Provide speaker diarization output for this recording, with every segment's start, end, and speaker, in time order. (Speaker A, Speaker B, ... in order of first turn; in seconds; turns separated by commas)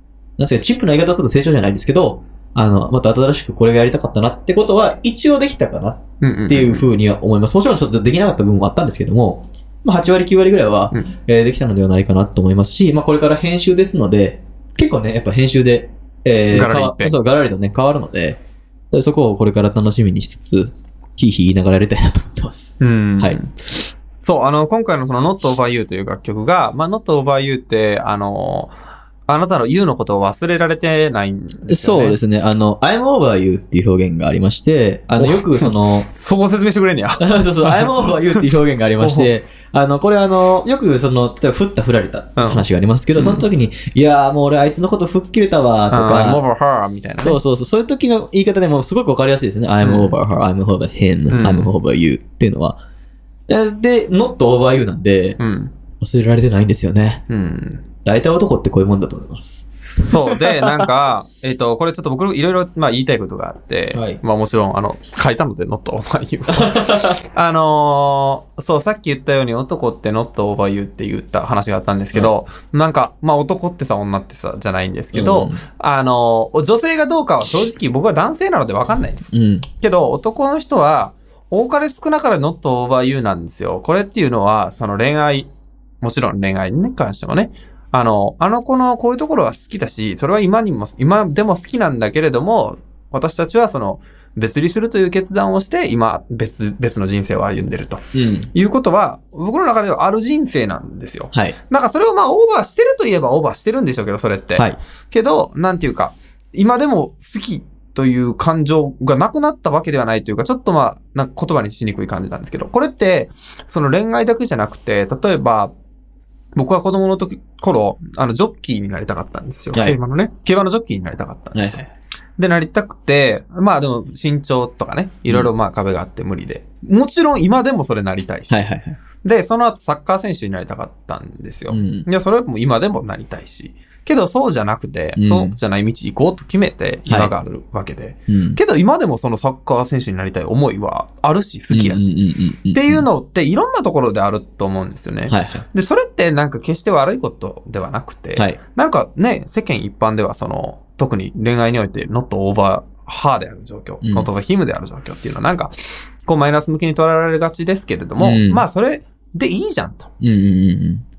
Speaker A: 0.4-18.4, Speaker B: 6.2-6.9, Speaker B: 16.5-17.2, Speaker A: 18.9-23.4, Speaker B: 22.8-28.7, Speaker B: 29.3-32.2, Speaker A: 31.7-36.1, Speaker B: 35.2-39.3, Speaker A: 37.2-46.4, Speaker B: 42.4-42.6, Speaker B: 43.2-43.5, Speaker B: 45.9-47.4, Speaker A: 47.2-52.8, Speaker B: 49.8-50.1, Speaker B: 51.3-51.7, Speaker A: 53.5-55.4, Speaker B: 55.4-55.7, Speaker A: 56.0-57.2, Speaker B: 57.3-57.8, Speaker A: 58.0-60.8, Speaker B: 60.0-85.5, Speaker A: 63.9-64.2, Speaker A: 66.5-67.2, Speaker A: 75.1-75.6, Speaker A: 79.3-79.7, Speaker B: 86.0-115.7, Speaker A: 98.1-98.5, Speaker B: 116.5-121.8, Speaker A: 119.7-120.0, Speaker A: 121.5-121.8, Speaker B: 122.4-128.7, Speaker A: 128.5-129.0, Speaker B: 129.2-142.1, Speaker A: 131.7-132.1, Speaker A: 135.2-135.6, Speaker A: 137.1-137.3, Speaker A: 138.3-138.6, Speaker A: 141.7-143.1, Speaker B: 142.7-155.7, Speaker A: 145.3-145.7, Speaker A: 154.0-154.3, Speaker B: 156.2-160.1, Speaker A: 158.2-158.7, Speaker A: 160.2-161.0